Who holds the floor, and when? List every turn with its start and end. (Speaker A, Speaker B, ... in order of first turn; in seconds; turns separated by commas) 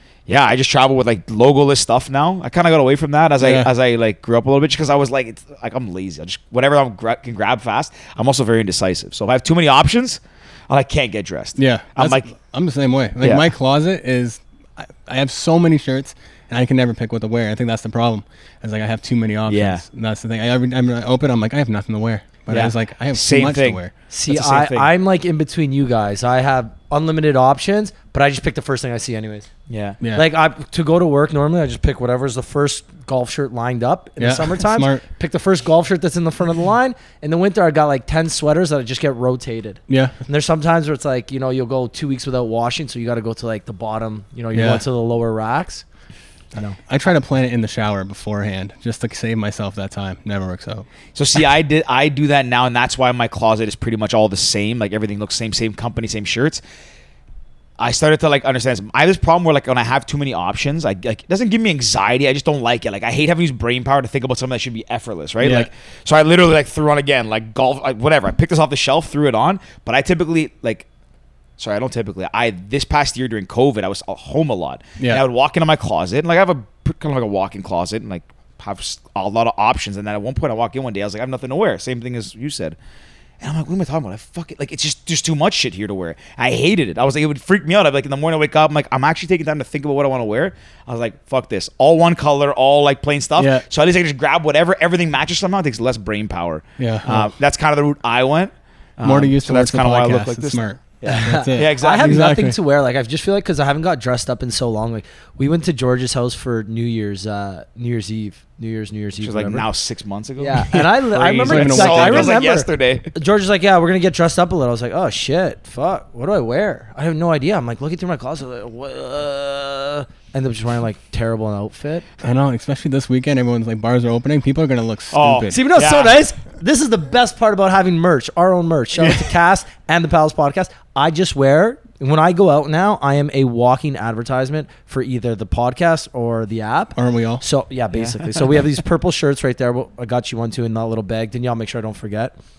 Speaker A: 0.3-12.3, Speaker B: 3.4-3.7, Speaker B: 11.6-23.9, Speaker A: 13.2-13.5, Speaker A: 19.5-19.8, Speaker A: 22.5-24.9, Speaker C: 24.1-29.5, Speaker A: 29.7-30.0, Speaker C: 30.1-45.8, Speaker B: 34.2-35.0, Speaker B: 39.9-40.2, Speaker B: 44.5-44.8, Speaker B: 46.9-50.9, Speaker A: 51.1-56.6, Speaker A: 57.8-70.9, Speaker B: 65.4-65.7, Speaker A: 71.6-82.8, Speaker A: 83.4-102.3, Speaker B: 93.4-93.6, Speaker B: 96.8-97.3, Speaker B: 99.0-102.6, Speaker C: 101.0-109.7, Speaker A: 109.2-113.1, Speaker C: 110.4-122.0, Speaker B: 110.7-112.4, Speaker B: 122.2-125.6, Speaker A: 125.1-126.2, Speaker C: 125.5-142.3, Speaker B: 137.0-137.4, Speaker A: 137.9-138.3